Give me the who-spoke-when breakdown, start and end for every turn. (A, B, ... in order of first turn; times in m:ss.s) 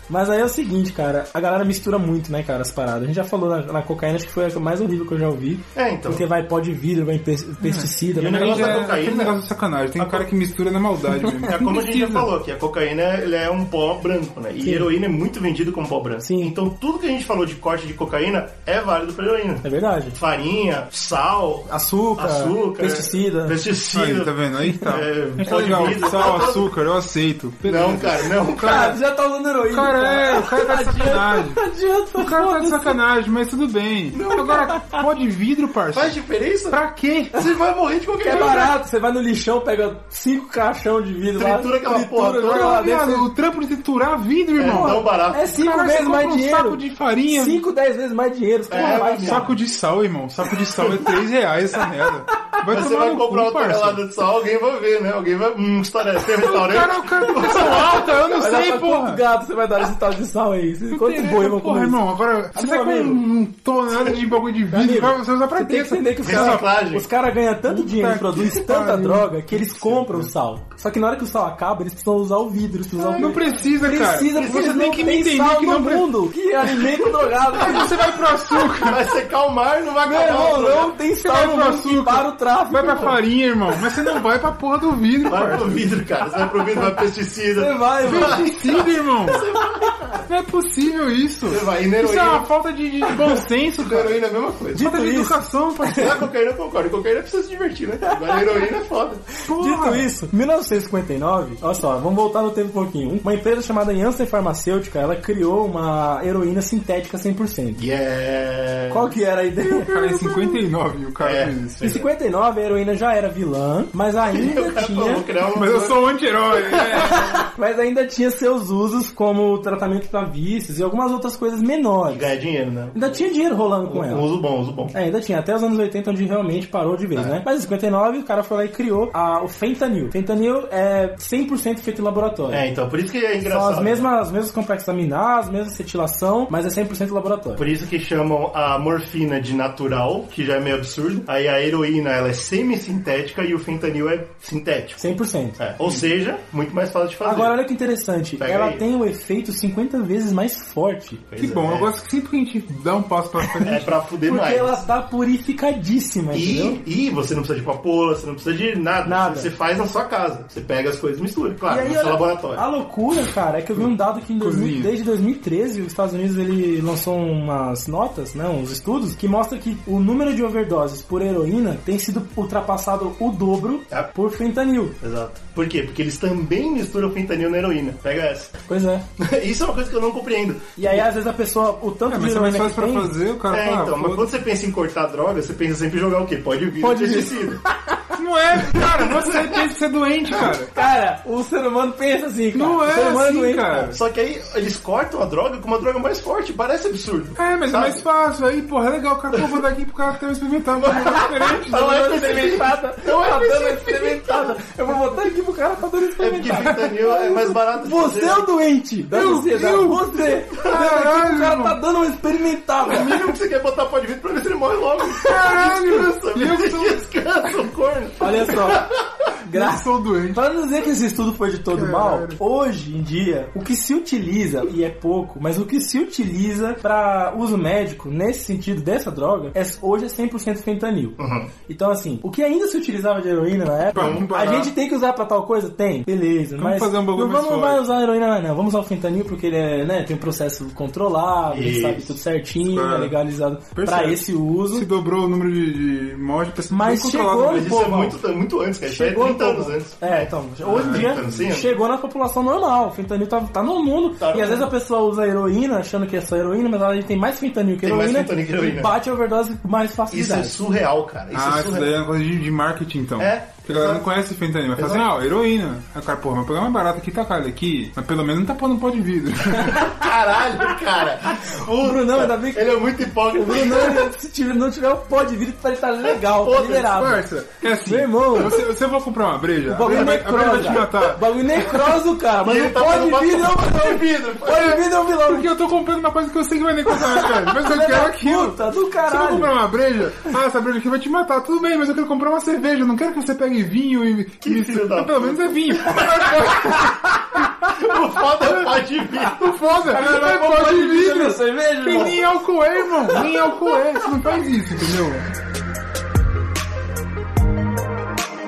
0:00.1-0:08.9 A
0:05.8-0:06.3 B
0:07.6-0:12.3 C
0:08.2-0:09.4 B
0:10.0-0:10.3 B
0:11.4-0:26.7 B
0:14.6-0:14.9 A
0:16.2-0:16.5 A
0:19.6-0:20.2 A
0:21.7-0:23.6 A
0:23.9-0:29.0 C
0:25.4-0:26.4 A
0:27.6-0:29.0 B
0:28.6-0:33.0 A
0:29.7-0:31.6 C
0:32.1-0:36.2 C
0:34.1-0:34.7 B
0:34.7-0:35.0 A
0:35.9-0:36.8 B
0:36.7-0:37.3 C
0:37.3-0:38.7 B
0:38.2-0:43.3 A
0:41.4-0:42.8 B
0:42.4-0:47.6 C
0:44.6-0:45.5 B
0:44.7-0:49.5 A
0:48.7-0:49.6 B
0:49.2-0:54.0 C
0:52.7-0:58.1 B
0:56.4-0:59.2 C
0:57.4-1:02.0 A
1:00.9-1:06.6 C
1:02.5-1:03.2 A
1:04.7-1:17.9 A
1:06.2-1:07.1 B
1:07.7-1:10.3 C
1:13.0-1:13.4 B
1:13.2-1:16.1 C
1:17.6-1:19.0 C
1:18.8-1:21.0 B
1:20.0-1:23.2 A
1:21.2-1:25.9 C
1:25.2-1:30.3 B
1:27.6-1:28.5 A
1:28.0-1:29.5 C
1:29.8-1:30.2 A
1:30.3-1:34.2 C
1:31.5-1:32.5 B
1:33.8-1:34.9 B
1:34.8-1:36.1 A
1:34.8-1:36.2 C
1:36.0-1:39.2 B
1:38.0-1:38.6 A
1:39.5-1:40.1 C
1:39.5-1:47.8 A
1:47.8-1:49.2 B
1:48.9-1:50.6 A
1:49.8-1:51.8 C
1:51.2-1:52.1 B
1:51.8-1:55.2 A
1:54.3-1:57.0 B
1:55.5-1:57.4 C
1:56.9-2:02.3 A
2:02.1-2:03.2 B
2:02.9-2:04.3 A
2:03.8-2:04.9 B
2:04.9-2:12.6 A
2:12.5-2:14.1 B
2:13.4-2:17.6 A
2:17.6-2:25.0 B
2:25.0-2:25.6 A
2:25.6-2:27.6 B
2:27.2-2:31.2 A
2:28.4-2:28.8 B
2:31.3-2:31.9 B
2:31.4-2:33.9 C
2:33.6-2:34.8 B
2:34.3-2:36.8 A
2:36.3-2:42.6 B
2:39.1-2:39.5 A
2:41.7-2:55.0 A
2:43.8-2:44.9 C
2:55.0-2:58.6 B
2:58.7-2:59.0 A
2:59.2-3:01.0 B
3:00.8-3:03.1 A
3:02.1-3:04.3 C
3:03.5-3:07.6 B
3:06.8-3:08.2 A
3:08.2-3:10.7 C
3:09.0-3:09.5 B
3:10.7-3:13.9 A
3:12.5-3:14.0 C
3:13.9-3:18.0 B
3:17.4-3:22.0 C
3:20.8-3:24.6 B
3:21.4-3:33.3 A
3:26.2-3:28.5 B
3:26.5-3:26.8 C
3:29.1-3:31.8 C
3:32.8-3:39.3 B
3:35.2-3:37.1 C
3:38.2-3:51.2 A
3:39.5-3:40.4 C
3:41.7-3:42.4 C
3:51.2-3:51.5 B
3:51.7-4:04.9 A
3:53.9-3:54.7 C
3:54.0-3:54.2 B
3:56.6-3:57.8 C
4:01.5-4:02.2 B
4:02.7-4:03.2 C
4:03.8-4:07.8 C
4:06.7-4:08.2 A
4:07.4-4:11.7 B
4:08.9-4:20.6 A
4:10.6-4:11.5 C
4:14.2-4:14.7 B
4:17.8-4:18.9 B
4:20.1-4:22.0 B
4:21.3-4:29.8 C
4:23.2-4:24.0 B
4:24.8-4:25.1 B
4:29.8-4:34.1 B
4:31.4-4:38.6 A
4:36.1-4:37.1 B
4:36.8-4:41.2 C
4:39.7-4:45.5 A
4:39.9-4:40.7 B
4:42.4-4:44.8 B
4:45.2-4:56.8 C
4:46.9-4:49.5 A
4:54.4-4:57.0 B
4:57.7-4:59.5 B
4:59.3-5:05.3 C
4:59.9-5:02.2 A
5:03.0-5:03.7 A